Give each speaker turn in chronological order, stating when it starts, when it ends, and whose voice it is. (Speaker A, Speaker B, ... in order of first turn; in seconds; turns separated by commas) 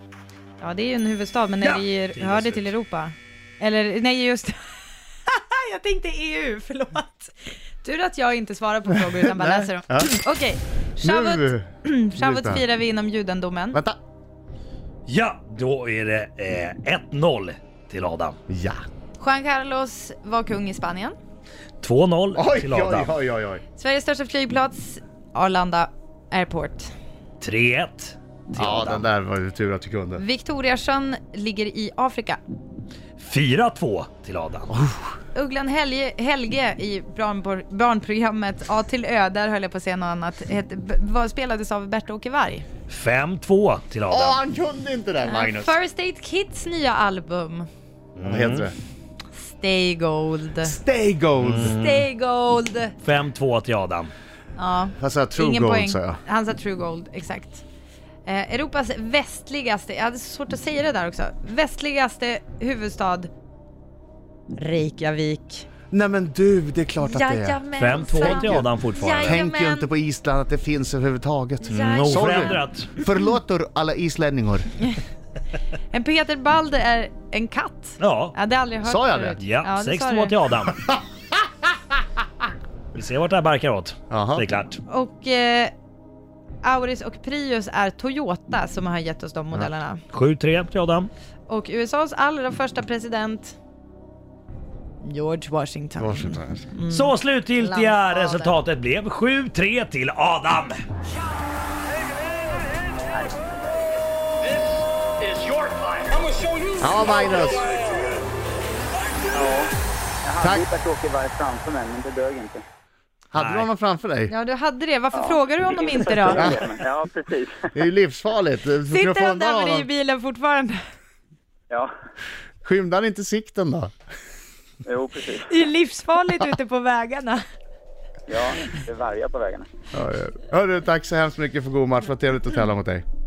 Speaker A: 0.6-13.8, Speaker B: 1.6-2.7, Speaker C: 8.9-10.1, Speaker C: 11.0-12.6, Speaker B: 15.1-18.4, Speaker C: 18.5-18.8, Speaker A: 19.2-21.1, Speaker B: 21.8-23.1, Speaker C: 22.3-23.6, Speaker A: 23.8-26.9, Speaker B: 27.4-29.1, Speaker C: 28.5-30.2, Speaker A: 30.2-32.4, Speaker B: 33.2-34.7, Speaker C: 34.7-35.0, Speaker A: 35.3-42.6, Speaker B: 42.9-44.4, Speaker C: 44.1-45.8, Speaker A: 45.2-47.7, Speaker B: 48.1-48.7, Speaker C: 48.2-48.8, Speaker A: 49.3-50.7, Speaker C: 50.6-51.8, Speaker B: 51.4-52.1, Speaker A: 51.7-53.0, Speaker B: 53.0-54.1, Speaker A: 54.6-57.6, Speaker C: 55.0-56.2, Speaker A: 58.2-63.3, Speaker A: 64.5-65.7, Speaker C: 65.9-74.7, Speaker A: 67.0-69.9, Speaker B: 67.8-69.4, Speaker A: 71.6-72.7, Speaker B: 71.7-72.9, Speaker A: 75.9-80.3, Speaker B: 78.0-78.3, Speaker C: 78.8-79.4, Speaker B: 79.4-80.8, Speaker B: 82.9-84.8, Speaker C: 84.1-84.5, Speaker A: 84.9-85.7, Speaker A: 86.6-90.0, Speaker B: 90.1-91.1, Speaker A: 91.5-93.6, Speaker A: 95.0-98.6, Speaker C: 96.0-96.7, Speaker B: 96.9-100.8, Speaker D: 103.1-103.9, Speaker C: 106.8-107.7, Speaker D: 109.3-109.7, Speaker D: 110.2-112.6, Speaker C: 110.4-110.7, Speaker C: 113.3-114.3, Speaker B: 113.4-113.7, Speaker A: 114.3-116.6, Speaker D: 115.1-117.7, Speaker C: 116.2-116.6, Speaker C: 117.7-119.9, Speaker A: 118.9-120.8, Speaker C: 122.6-123.9, Speaker D: 124.8-125.5, Speaker A: 125.5-127.4, Speaker D: 128.3-129.7, Speaker C: 129.9-133.0